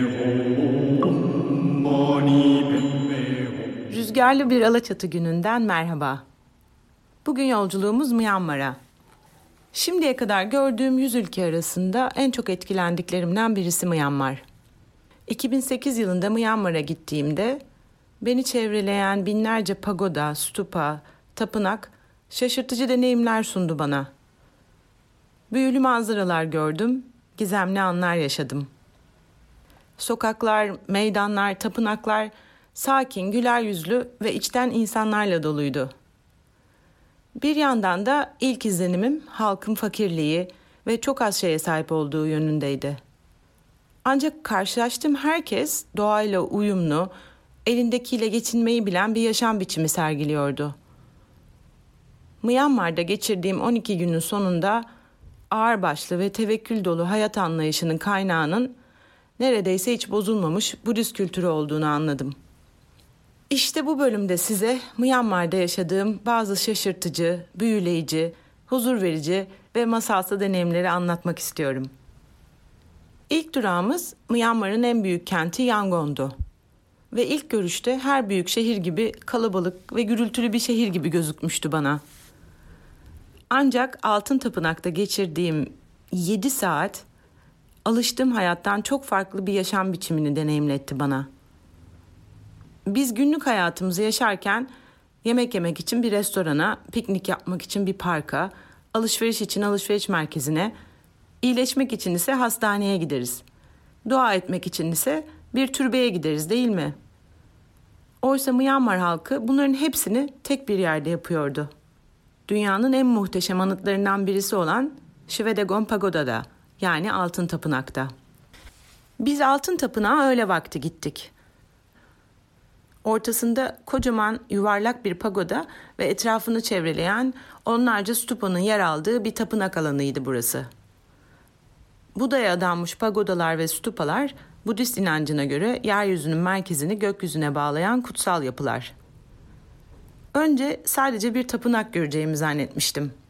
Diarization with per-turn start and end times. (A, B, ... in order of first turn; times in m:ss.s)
0:03.9-0:06.2 A
0:07.2-0:08.8 A
0:09.7-0:14.4 A
0:15.3-0:17.6 A
0:18.2-0:24.1 A
0:25.5-0:28.7 A
0:30.0-0:35.9 A
0:37.4-0:43.0 A
0:44.0-0:47.1 A
0:47.6-0:50.7 A
0:52.4-0:54.8 A
0:55.5-0:58.8 A
0:59.4-1:02.3 A
1:03.5-1:11.9 A
1:13.3-1:16.3 A
1:17.1-1:22.0 A
1:23.5-1:27.0 A
1:27.8-1:31.3 A
1:32.8-1:34.7 A
1:35.2-1:40.7 A
1:41.4-1:43.4 A
1:44.0-1:46.9 A
1:48.2-1:51.7 A
1:52.5-1:58.1 A
1:59.2-2:01.3 A
2:03.0-2:10.7 A
2:12.1-2:18.9 A
2:20.3-2:23.1 A